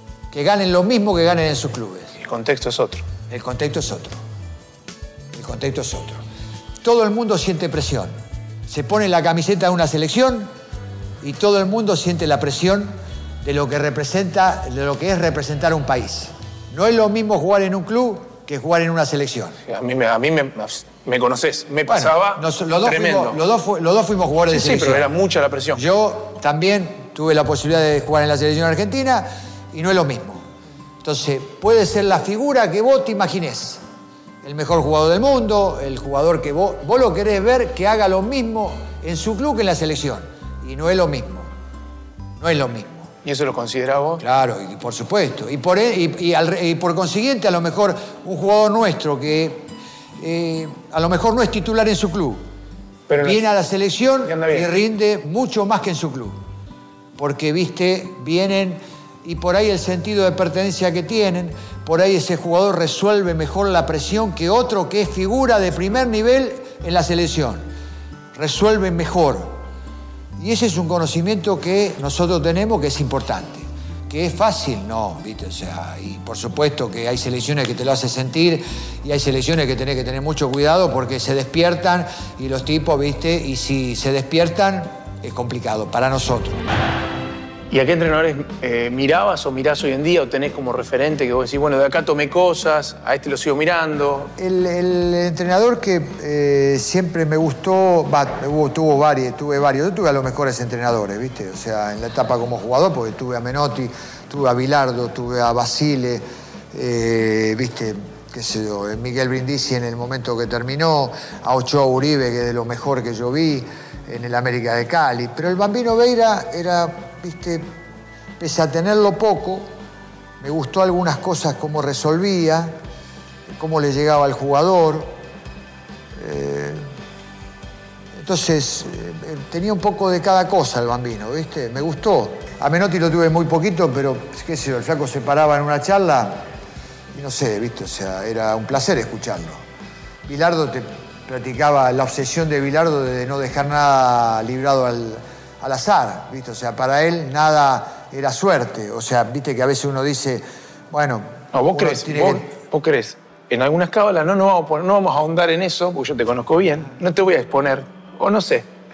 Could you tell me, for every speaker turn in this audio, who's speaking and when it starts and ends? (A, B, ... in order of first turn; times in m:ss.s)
0:00.3-0:02.1 A
0:02.2-0:03.0 B
0:03.3-0:04.2 A
0:05.3-0:06.2 A
0:06.8-0:08.1 A
0:08.7-0:10.5 A
0:11.2-0:19.6 A
0:19.7-0:23.4 B
0:21.9-0:25.1 A
0:24.5-0:25.8 B
0:25.7-0:30.4 A
0:31.0-0:33.8 A
0:34.4-0:41.5 A
0:42.4-0:43.1 A
0:43.2-0:44.2 B
0:44.2-0:52.4 A
0:53.1-0:53.4 B
0:53.2-0:56.4 A
0:54.2-0:54.7 B
0:57.2-1:07.7 A
1:08.3-1:09.6 A
1:10.4-1:26.6 A
1:27.7-1:34.3 B
1:34.4-1:57.7 A
1:58.4-1:59.7 A
2:00.4-2:02.8 A
2:03.5-2:05.2 A
2:06.2-2:06.8 A
2:08.1-2:16.4 A
2:17.1-2:19.6 A
2:20.2-2:32.5 A
2:31.5-2:38.7 B